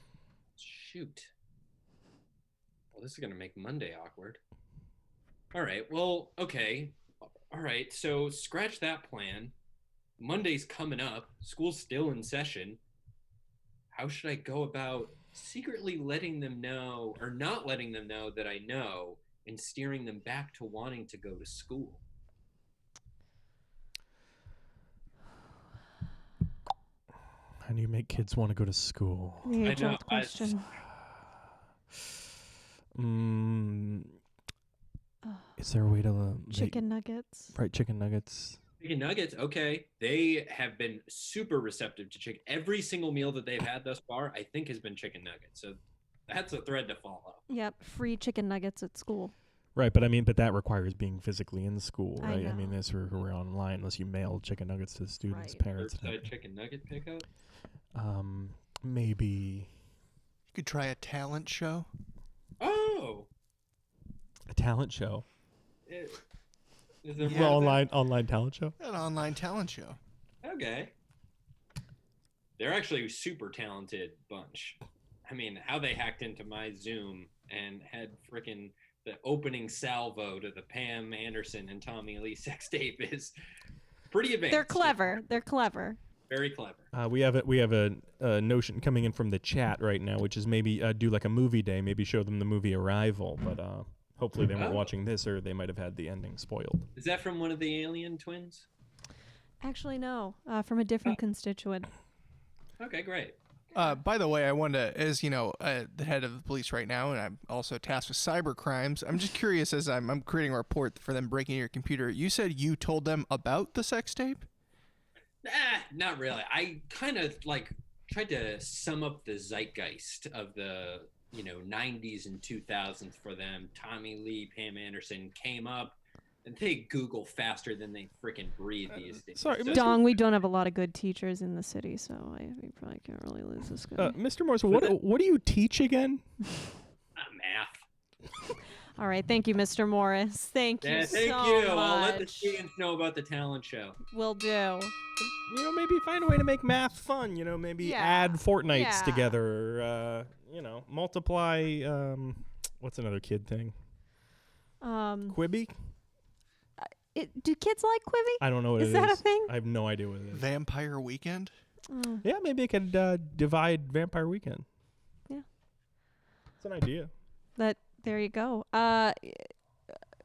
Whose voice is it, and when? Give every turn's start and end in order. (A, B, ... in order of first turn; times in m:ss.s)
0:00.6-0:01.3 A
0:02.9-0:04.4 A
0:05.5-0:09.5 A
0:10.2-0:12.8 A
0:13.9-0:22.0 A
0:27.6-0:29.6 B
0:29.4-0:30.7 C
0:29.6-0:30.6 A
0:32.9-0:34.2 B
0:35.2-0:35.5 C
0:35.6-0:36.8 B
0:36.5-0:37.5 C
0:37.5-0:38.6 B
0:38.8-0:47.4 A
0:47.5-0:49.3 C
0:49.8-0:56.3 B
0:52.2-0:52.8 C
0:55.3-0:55.6 C
0:55.7-0:57.3 A
0:57.9-0:59.7 B
1:00.5-1:01.9 D
1:02.6-1:03.3 A
1:04.5-1:05.2 B
1:05.9-1:06.2 A
1:07.0-1:07.8 A
1:07.2-1:07.8 D
1:07.2-1:08.7 B
1:08.8-1:10.0 D
1:10.4-1:10.9 A
1:12.6-1:23.3 A
1:24.1-1:25.3 A
1:24.5-1:26.0 C
1:26.3-1:26.9 A
1:26.9-1:36.9 B
1:34.6-1:34.9 A
1:36.9-1:38.7 A
1:39.6-1:41.9 C
1:42.8-1:43.4 A
1:43.7-1:54.4 D
1:55.4-2:10.0 A
2:08.9-2:10.1 B
2:09.7-2:14.2 C
2:14.0-2:16.2 B
2:17.2-2:17.8 A
2:18.9-2:22.6 C
2:20.8-2:24.0 A
2:24.0-2:24.9 C
2:25.4-2:33.7 B
2:27.8-2:29.3 C
2:34.8-2:35.4 C
2:35.3-2:35.7 B
2:36.8-2:39.5 C
2:38.4-2:40.4 B
2:40.3-2:41.5 D
2:41.9-2:42.2 C
2:42.2-2:44.6 B
2:46.6-2:47.1 B
2:47.6-2:49.5 C